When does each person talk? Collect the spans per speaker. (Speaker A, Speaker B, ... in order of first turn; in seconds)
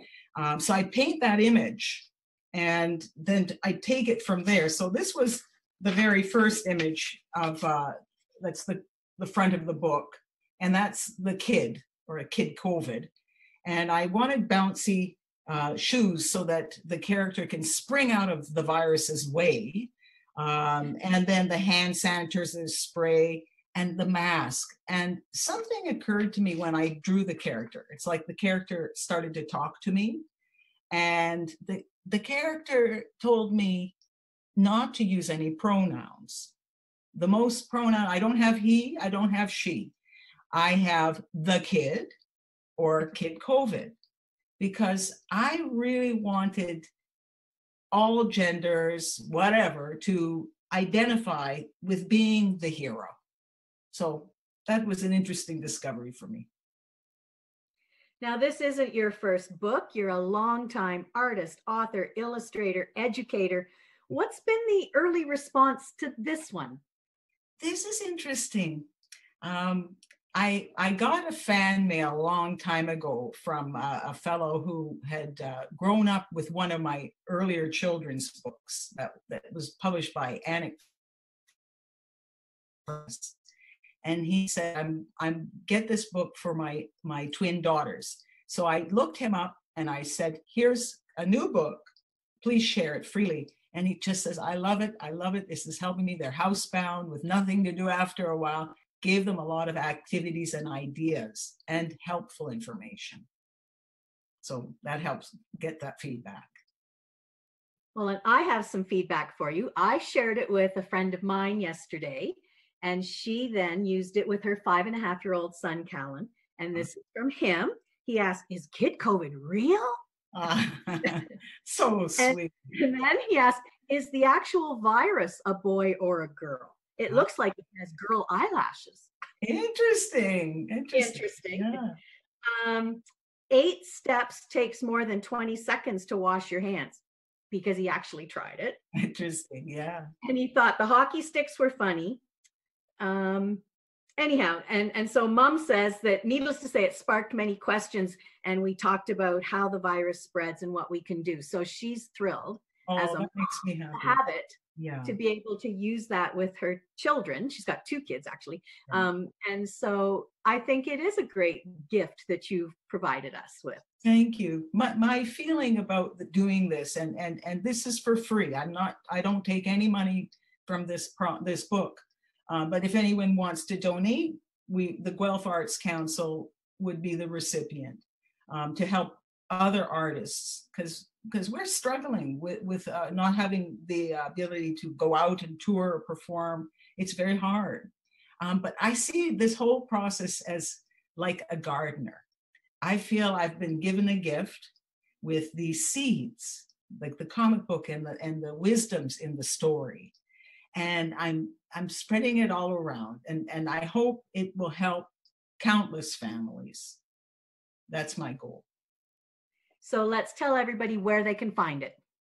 Speaker A: 0.3-13.1, 13.6-30.2, 30.9-33.9, 34.6-36.5, 37.1-39.9, 40.5-42.1, 42.8-43.9, 44.6-46.9, 47.9-53.1, 53.9-56.5, 67.6-68.9, 69.4-80.8, 82.8-83.4, 84.0-91.8, 92.4-103.3, 104.4-106.5, 120.3-122.5, 129.4-132.0, 138.9-140.1, 152.9-154.2, 154.8-155.2, 164.0-192.2, 192.8-200.1, 200.7-207.0, 207.9-208.7
Speaker B: 58.2-66.8, 108.0-120.0, 122.2-129.1, 130.9-131.8, 132.4-138.8, 140.2-142.2, 143.0-143.6, 144.2-163.8, 209.8-212.0